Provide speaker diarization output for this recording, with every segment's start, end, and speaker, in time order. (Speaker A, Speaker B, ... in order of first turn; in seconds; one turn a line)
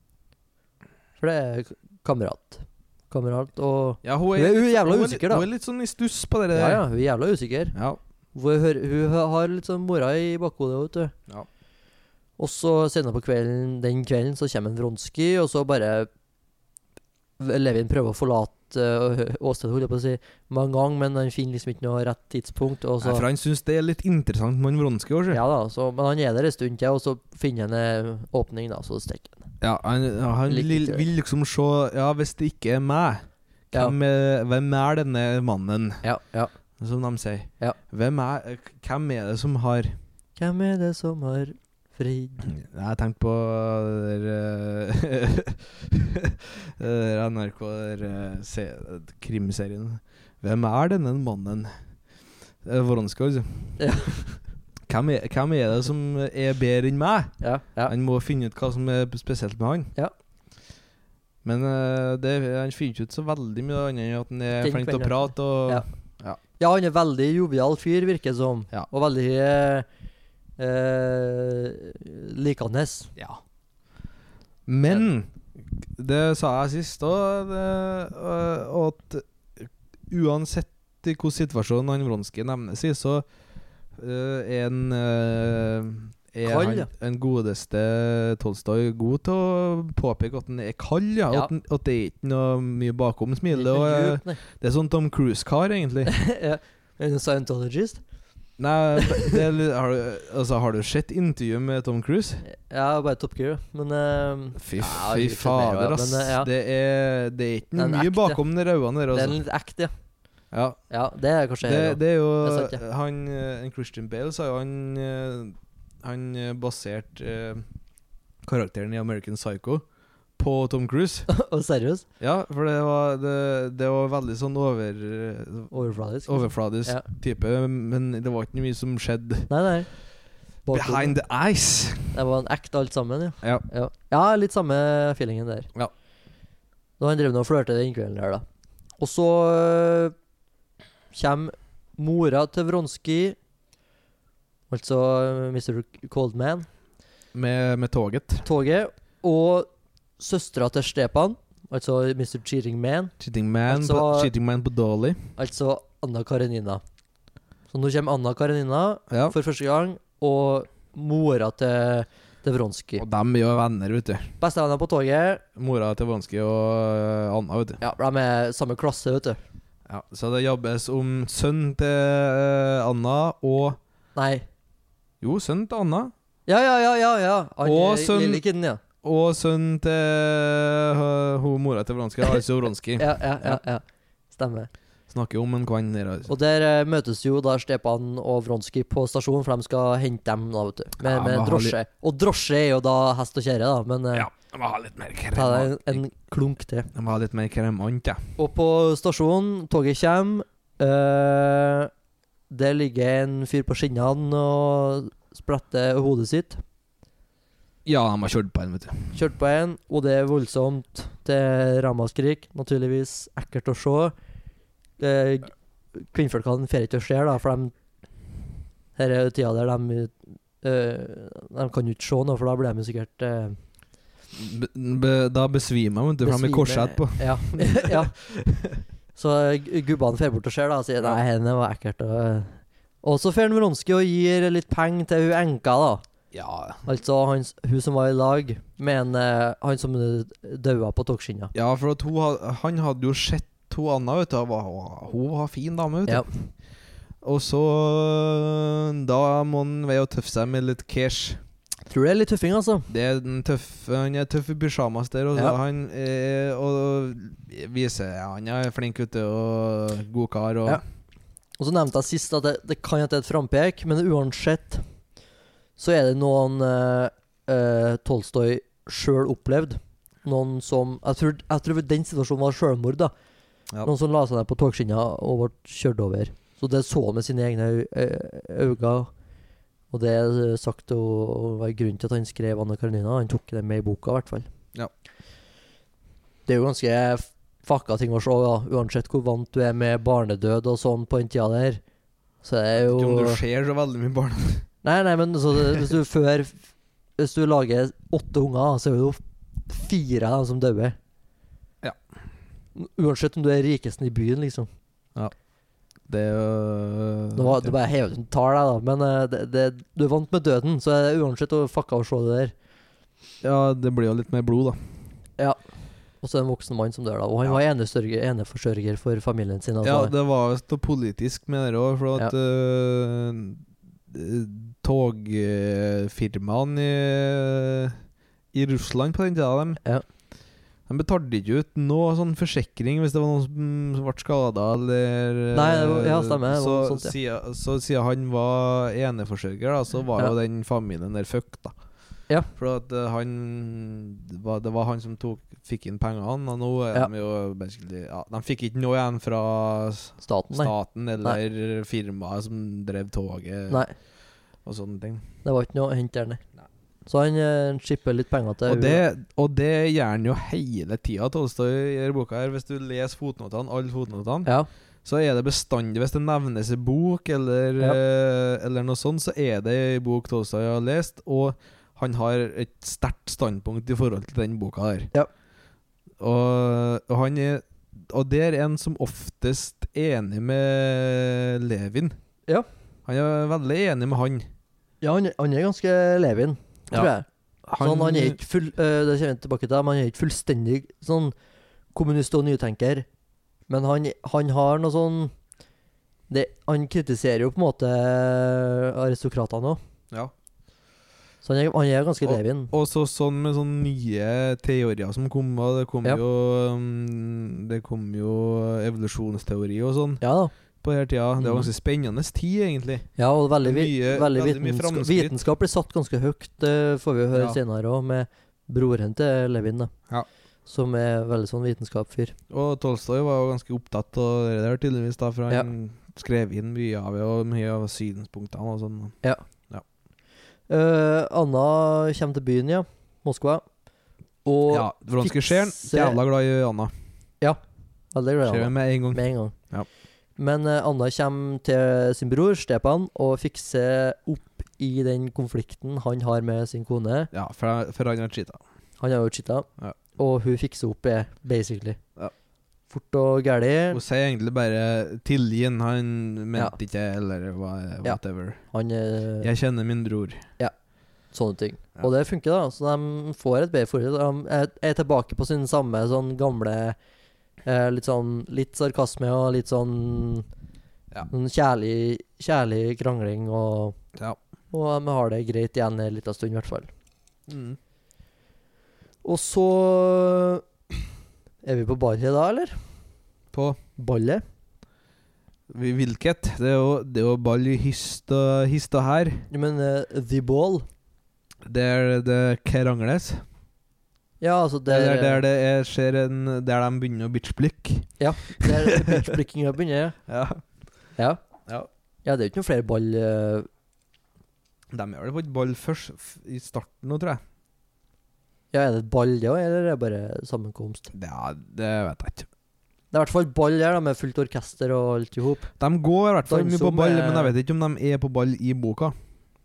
Speaker A: 1.2-5.5
Speaker B: 4.0-6.8
Speaker A: 6.5-7.8
Speaker B: 7.7-8.0
Speaker A: 8.3-11.1
Speaker A: 12.4-16.1
Speaker A: 17.4-23.3
Speaker B: 23.0-25.4
Speaker A: 25.3-29.5
Speaker B: 29.6-36.0
Speaker A: 30.5-31.1
Speaker A: 36.0-36.5
Speaker B: 36.8-40.0
Speaker A: 40.4-42.5
Speaker B: 42.5-51.7
Speaker B: 52.6-54.2
Speaker A: 53.8-54.2
Speaker B: 54.9-57.3
Speaker A: 57.4-57.9
Speaker B: 57.9-59.9
Speaker B: 61.4-66.4
Speaker A: 64.6-65.9
Speaker A: 66.6-69.9
Speaker A: 70.6-73.1
Speaker B: 74.7-83.2
Speaker B: 84.0-96.1
Speaker A: 86.5-86.9
Speaker A: 93.5-94.4
Speaker A: 96.1-98.0
Speaker B: 98.6-102.4
Speaker A: 99.0-99.4
Speaker A: 102.4-106.5
Speaker B: 104.6-109.4
Speaker A: 107.8-108.4
Speaker A: 109.1-109.9
Speaker B: 110.5-110.8
Speaker A: 110.9-112.8
Speaker B: 111.6-117.7
Speaker B: 118.4-119.8
Speaker B: 120.4-121.3
Speaker A: 121.3-122.1
Speaker B: 122.2-125.7
Speaker A: 125.7-127.0
Speaker B: 126.3-129.5
Speaker A: 129.5-129.9
Speaker A: 130.7-131.2
Speaker B: 130.7-132.2
Speaker A: 132.1-135.7
Speaker A: 137.0-138.4
Speaker A: 139.0-140.2
Speaker A: 141.1-143.4
Speaker A: 144.7-146.7
Speaker B: 147.3-148.5
Speaker A: 148.4-153.1
Speaker B: 153.2-155.3
Speaker A: 153.7-154.3
Speaker A: 155.4-156.8
Speaker A: 157.7-163.0
Speaker B: 159.1-159.3
Speaker B: 163.0-164.3
Speaker A: 164.4-165.4
Speaker B: 165.6-167.8
Speaker A: 167.8-169.4
Speaker B: 169.9-173.8
Speaker A: 174.2-174.5
Speaker B: 175.2-176.1
Speaker A: 176.5-178.8
Speaker B: 177.6-178.4
Speaker B: 179.0-183.6
Speaker A: 183.0-184.7
Speaker B: 185.1-186.3
Speaker A: 186.3-194.3
Speaker B: 191.0-191.8
Speaker B: 194.1-196.0
Speaker A: 195.3-196.9
Speaker B: 196.9-198.2
Speaker A: 198.4-201.9
Speaker A: 202.5-206.6
Speaker B: 207.8-209.0
Speaker A: 209.1-214.1
Speaker A: 215.0-217.7
Speaker A: 219.0-223.6
Speaker B: 224.3-228.8
Speaker A: 226.2-228.2
Speaker A: 229.2-236.0
Speaker B: 236.3-236.8
Speaker A: 236.9-241.5
Speaker B: 241.5-246.3
Speaker B: 247.2-251.4
Speaker A: 251.9-252.9
Speaker B: 252.9-260.8
Speaker A: 261.6-264.8
Speaker A: 265.8-273.1
Speaker A: 273.8-279.1
Speaker A: 279.9-284.5
Speaker A: 286.5-291.8
Speaker A: 292.4-293.4
Speaker B: 292.8-294.7
Speaker A: 294.8-296.6
Speaker A: 297.2-301.0
Speaker A: 302.8-304.7
Speaker B: 306.1-307.7
Speaker A: 307.4-312.5
Speaker B: 313.4-314.8
Speaker A: 316.2-320.1
Speaker B: 319.8-328.0
Speaker B: 328.5-329.8
Speaker B: 330.9-341.8
Speaker A: 335.5-337.1
Speaker B: 342.6-353.9
Speaker A: 350.2-351.4
Speaker A: 353.7-353.9
Speaker B: 354.6-355.2
Speaker A: 355.4-356.4
Speaker A: 357.1-359.0
Speaker B: 358.7-364.5
Speaker B: 365.1-375.1
Speaker B: 376.2-382.2
Speaker B: 383.1-384.5
Speaker A: 385.0-387.3
Speaker B: 387.7-388.4
Speaker A: 387.8-391.3
Speaker A: 391.9-393.1
Speaker A: 393.7-395.3
Speaker A: 396.3-399.8
Speaker A: 401.4-402.7
Speaker B: 402.2-410.2
Speaker A: 410.2-410.5
Speaker B: 410.8-413.1
Speaker A: 411.4-411.7
Speaker A: 413.2-419.9
Speaker B: 413.6-415.4
Speaker B: 417.3-417.6
Speaker A: 420.7-422.4
Speaker B: 422.5-429.2
Speaker A: 430.7-433.6
Speaker A: 434.4-436.2
Speaker B: 434.7-436.9
Speaker A: 438.1-439.6
Speaker B: 438.5-439.9
Speaker A: 440.4-447.3
Speaker B: 447.3-448.6
Speaker A: 449.0-452.0
Speaker A: 452.9-454.0
Speaker B: 453.9-458.6
Speaker A: 458.0-459.5
Speaker B: 459.4-460.4
Speaker A: 461.3-467.0
Speaker A: 467.6-470.5
Speaker A: 471.3-474.0
Speaker A: 474.7-476.9
Speaker B: 477.5-477.8
Speaker A: 479.2-480.6
Speaker A: 481.6-482.8
Speaker B: 483.5-483.8
Speaker A: 484.0-484.4
Speaker B: 485.7-489.5
Speaker A: 489.5-490.9
Speaker B: 491.7-493.4
Speaker A: 494.4-495.4
Speaker B: 494.9-499.3
Speaker A: 498.2-500.2
Speaker B: 500.3-500.6
Speaker A: 502.2-503.7
Speaker B: 504.9-507.4
Speaker A: 508.7-511.1
Speaker B: 511.1-512.5
Speaker A: 513.1-515.7
Speaker B: 515.8-519.1
Speaker A: 516.5-517.6